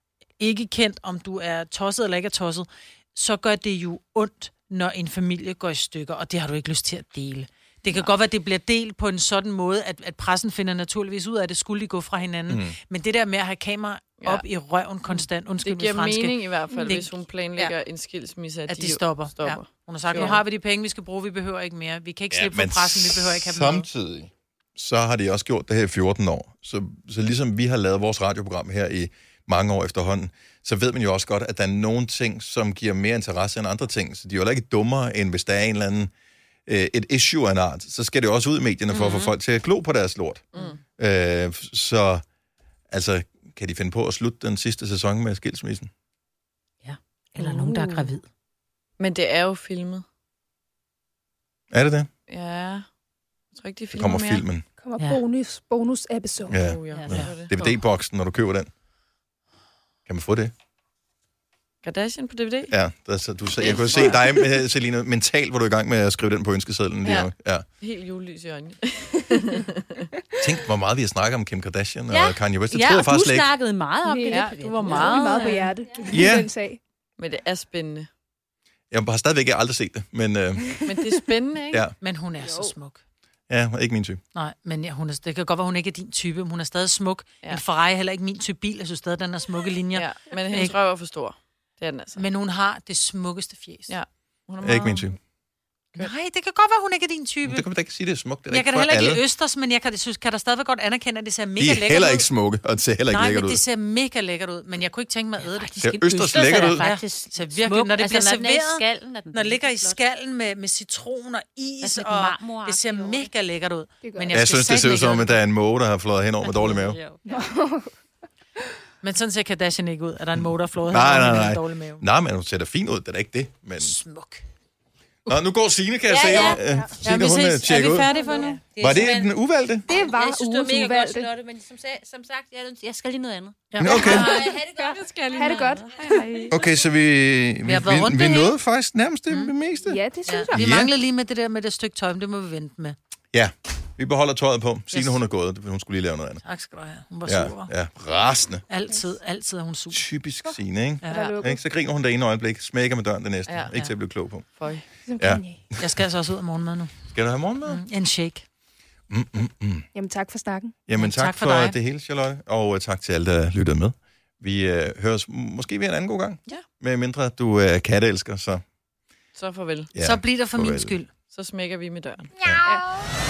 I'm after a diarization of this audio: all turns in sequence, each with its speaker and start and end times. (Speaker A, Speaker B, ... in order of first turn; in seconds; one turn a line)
Speaker A: 0.4-17.7
Speaker B: 12.5-12.8
Speaker C: 15.6-20.4
Speaker A: 18.7-23.9
Speaker B: 22.3-36.1
Speaker B: 36.7-42.2
Speaker D: 38.9-39.3
Speaker C: 40.5-40.8
Speaker B: 42.9-45.9
Speaker D: 46.8-48.2
Speaker A: 47.4-48.1
Speaker C: 49.0-50.0
Speaker B: 51.7-52.1
Speaker C: 52.3-52.9
Speaker C: 53.5-54.4
Speaker B: 53.9-54.6
Speaker E: 54.8-56.6
Speaker B: 56.5-58.7
Speaker C: 56.5-57.6
Speaker D: 56.9-57.3
Speaker B: 60.1-60.5
Speaker C: 61.8-62.7
Speaker B: 62.7-67.7
Speaker C: 63.6-64.5
Speaker C: 67.0-70.1
Speaker B: 70.4-73.5
Speaker D: 72.1-75.7
Speaker E: 74.0-76.8
Speaker C: 74.3-75.6
Speaker B: 76.1-76.5
Speaker C: 77.2-78.1
Speaker B: 78.9-81.0
Speaker C: 80.8-81.9
Speaker A: 82.0-83.0
Speaker E: 82.4-82.7
Speaker B: 83.5-84.2
Speaker A: 84.3-90.7
Speaker C: 89.9-92.2
Speaker A: 92.2-93.9
Speaker C: 93.9-95.2
Speaker B: 94.6-95.2
Speaker A: 95.9-97.7
Speaker B: 97.4-99.2
Speaker A: 98.5-102.3
Speaker B: 101.6-103.6
Speaker A: 103.1-115.4
Speaker D: 105.5-110.0
Speaker B: 105.8-106.8
Speaker D: 111.8-113.3
Speaker E: 114.0-114.5
Speaker B: 114.3-117.0
Speaker D: 116.6-117.2
Speaker E: 117.3-117.9
Speaker A: 119.0-122.0
Speaker B: 120.4-124.0
Speaker A: 123.8-124.4
Speaker B: 125.2-128.1
Speaker D: 126.1-126.8
Speaker C: 127.0-128.6
Speaker A: 127.0-128.6
Speaker D: 128.6-129.3
Speaker B: 128.8-129.8
Speaker E: 129.9-131.3
Speaker D: 129.9-136.0
Speaker A: 133.7-134.2
Speaker B: 133.8-134.4
Speaker C: 134.0-136.6
Speaker E: 134.0-136.5
Speaker B: 136.5-140.0
Speaker A: 137.6-138.5
Speaker E: 139.8-140.6
Speaker A: 140.3-142.9
Speaker B: 140.5-140.9
Speaker B: 143.3-146.4
Speaker A: 144.9-145.2
Speaker A: 146.4-147.7
Speaker B: 147.3-148.6
Speaker A: 148.7-150.0
Speaker B: 149.9-154.5
Speaker E: 151.0-151.6
Speaker C: 151.1-151.4
Speaker C: 153.5-153.8
Speaker C: 154.6-154.8
Speaker E: 155.1-155.6
Speaker B: 155.2-155.8
Speaker A: 155.8-157.0
Speaker B: 157.1-157.8
Speaker A: 157.7-158.4
Speaker B: 159.1-159.8
Speaker E: 159.9-160.7
Speaker B: 160.9-168.6
Speaker A: 160.9-161.8
Speaker C: 169.3-169.9
Speaker B: 169.9-171.0
Speaker A: 170.0-171.1
Speaker C: 171.3-172.3